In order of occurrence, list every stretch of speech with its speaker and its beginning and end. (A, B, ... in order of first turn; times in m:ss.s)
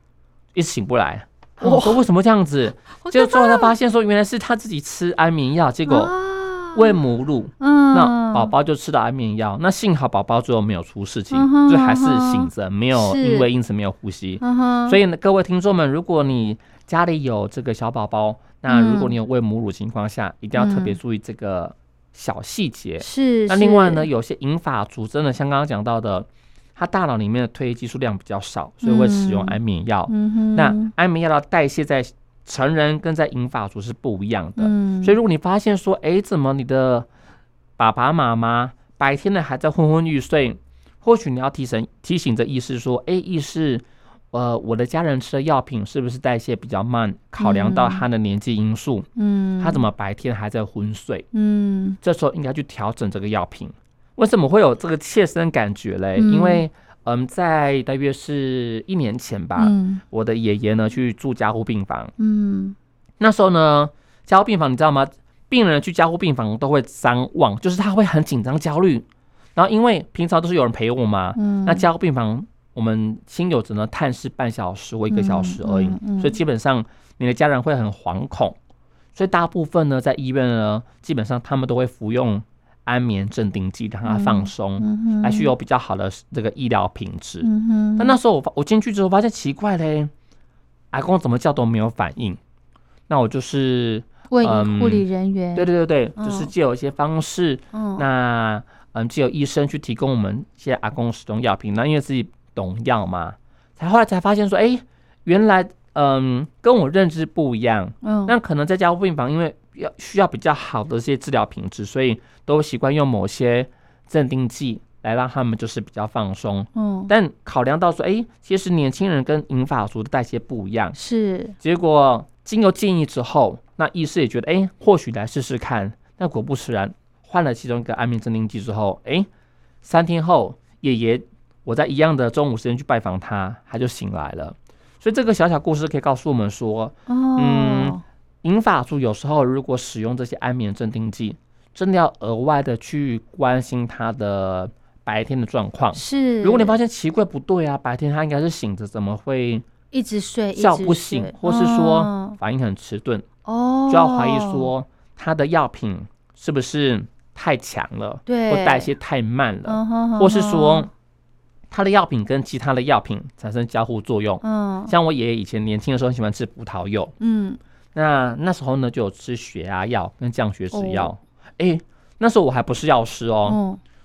0:00.5-0:06.2 A
0:01.6-0:02.0 B
0:03.0-0:03.7 B
0:05.9-0:07.0 B
0:06.7-0:37.1 A
0:07.6-0:08.5 B
0:11.3-0:13.5 B
0:14.4-0:15.0 B
0:18.7-0:19.1 B
0:20.6-0:21.0 B
0:23.0-0:24.1 B
0:28.8-0:30.9 B
0:34.6-0:35.2 B
0:37.8-0:49.1 A
0:47.4-0:48.0 B
0:49.2-0:49.9 B
0:49.6-0:51.3 A
0:51.3-0:52.0 B
0:52.0-1:02.1 A
0:56.2-0:56.6 B
0:59.6-1:00.0 B
1:02.2-1:02.8 B
1:03.2-1:18.6 A
1:11.4-1:11.9 B
1:15.1-1:16.4 B
1:19.2-1:30.1 A
1:24.1-1:25.5 B
1:27.4-1:28.2 B
1:30.9-1:32.4 A
1:33.1-1:35.0 A
1:34.3-1:36.5 B
1:35.6-2:01.0 A
1:37.7-1:38.0 B
1:48.0-1:48.4 B
1:56.8-1:57.1 B
2:01.0-2:01.6 B
2:01.6-2:09.3 A
2:09.8-2:29.7 A
2:17.1-2:18.0 B
2:25.9-2:26.8 B
2:29.9-2:32.4 B
2:30.6-2:33.2 A
2:33.4-2:34.7 B
2:33.9-2:40.9 A
2:38.3-2:38.9 B
2:39.7-2:40.9 B
2:41.7-2:47.1 A
2:44.4-2:44.9 B
2:47.2-2:47.6 B
2:48.0-2:53.6 A
2:50.7-2:51.1 B
2:53.5-2:53.8 B